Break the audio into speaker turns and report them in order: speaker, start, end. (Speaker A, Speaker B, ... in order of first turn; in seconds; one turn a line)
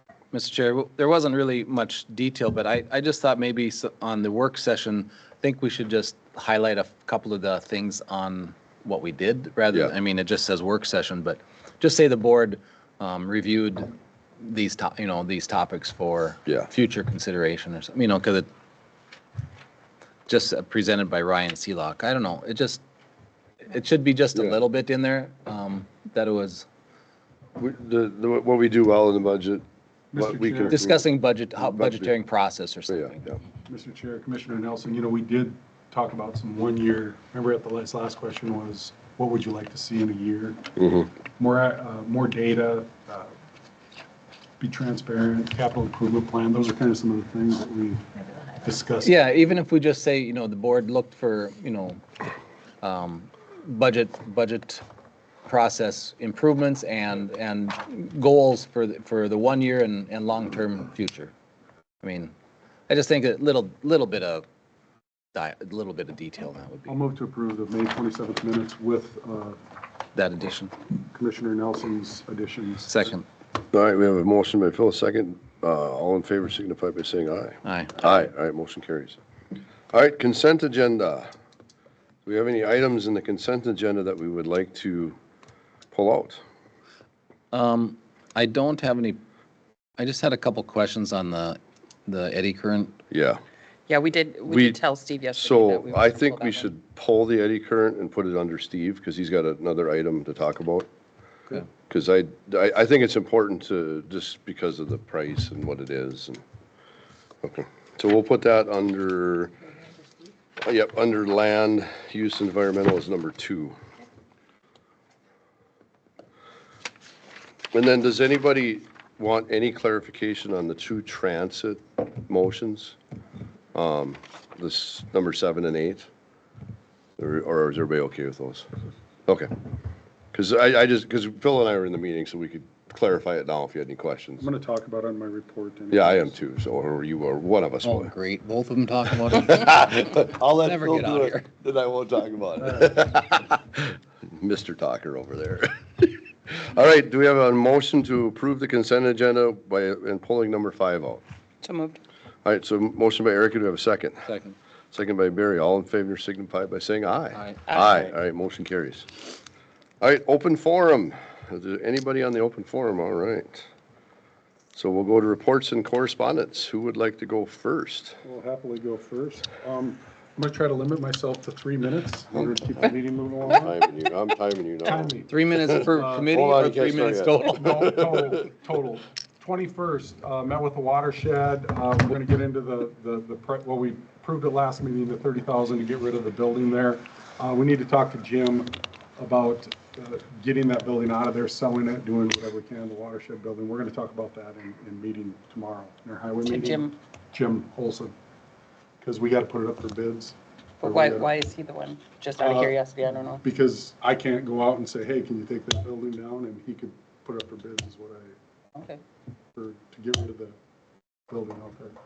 Speaker A: 0.3-18.5
Speaker A: 20.3-22.8
Speaker A: 23.6-26.6
Speaker B: 24.3-24.6
Speaker B: 27.6-29.6
Speaker C: 30.1-30.8
Speaker B: 30.2-31.1
Speaker A: 30.7-33.2
Speaker B: 31.6-32.1
Speaker B: 32.9-33.3
Speaker C: 33.7-40.6
Speaker B: 40.8-41.1
Speaker C: 41.4-43.3
Speaker C: 44.6-48.0
Speaker C: 48.6-49.1
Speaker A: 49.0-52.0
Speaker A: 52.8-54.8
Speaker A: 55.5-61.3
Speaker A: 62.0-62.3
Speaker A: 62.9-64.4
Speaker A: 65.3-66.9
Speaker C: 66.9-69.6
Speaker A: 70.1-70.7
Speaker C: 71.1-73.1
Speaker A: 72.8-73.2
Speaker B: 73.7-79.2
Speaker A: 77.6-78.0
Speaker B: 79.9-81.3
Speaker B: 82.2-85.2
Speaker B: 85.9-86.4
Speaker A: 87.5-89.2
Speaker A: 90.0-93.0
Speaker B: 93.1-93.4
Speaker D: 93.9-96.7
Speaker B: 94.5-94.8
Speaker B: 95.3-100.9
Speaker B: 101.9-106.4
Speaker B: 107.4-109.5
Speaker B: 110.6-113.8
Speaker B: 117.7-123.0
Speaker B: 123.7-126.1
Speaker B: 127.2-128.7
Speaker B: 130.3-134.4
Speaker C: 134.4-136.3
Speaker B: 135.9-138.1
Speaker A: 137.8-141.5
Speaker B: 139.5-151.2
Speaker D: 151.6-152.0
Speaker B: 152.4-154.3
Speaker A: 154.2-154.5
Speaker B: 154.9-159.1
Speaker A: 157.3-157.6
Speaker D: 157.7-158.1
Speaker B: 160.0-163.7
Speaker B: 164.7-168.2
Speaker C: 168.2-173.8
Speaker B: 173.5-178.3
Speaker C: 174.8-175.3
Speaker A: 175.3-178.0
Speaker C: 175.9-176.3
Speaker C: 177.5-198.1
Speaker D: 196.4-196.9
Speaker C: 199.0-201.3
Speaker D: 200.8-203.4
Speaker C: 202.4-202.8
Speaker C: 203.4-208.3
Speaker C: 209.6-210.5
Speaker C: 211.3-211.9